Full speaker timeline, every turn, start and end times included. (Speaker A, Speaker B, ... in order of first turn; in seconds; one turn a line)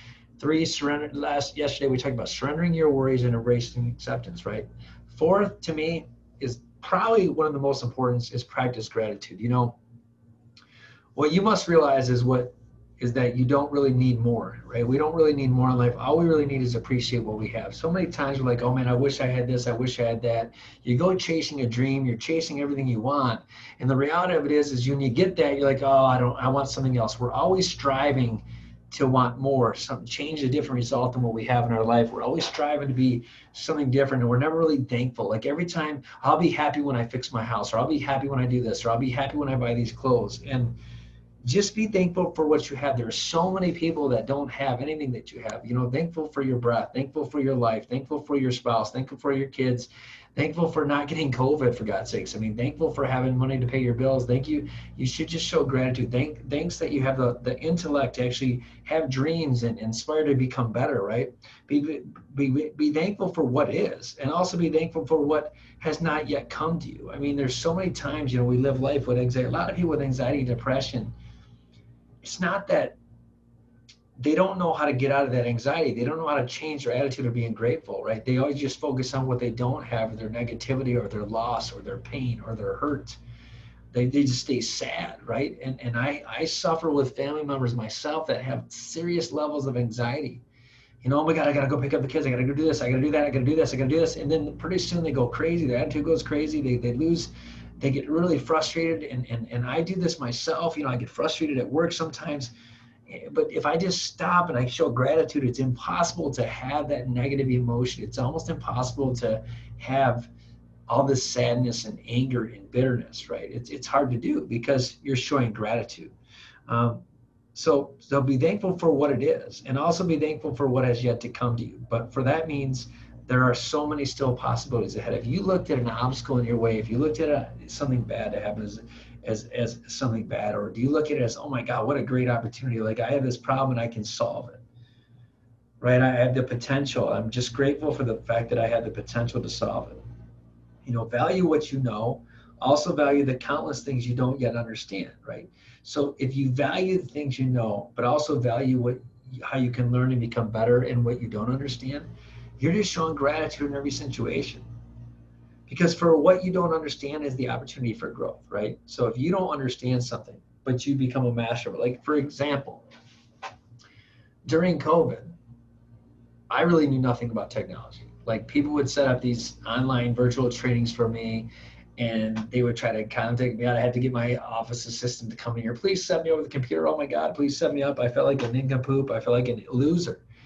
Speaker A: 0.4-9.8
Speaker A: 11.2-40.8
Speaker A: 41.4-71.1
Speaker A: 72.2-73.0
Speaker A: 74.2-83.2
Speaker A: 83.9-90.4
Speaker A: 91.0-102.5
Speaker A: 103.1-110.3
Speaker A: 110.9-116.1
Speaker A: 116.7-117.0
Speaker A: 117.5-134.6
Speaker A: 135.8-140.0
Speaker A: 140.8-154.7
Speaker A: 155.7-162.8
Speaker A: 164.5-165.3
Speaker A: 166.5-180.2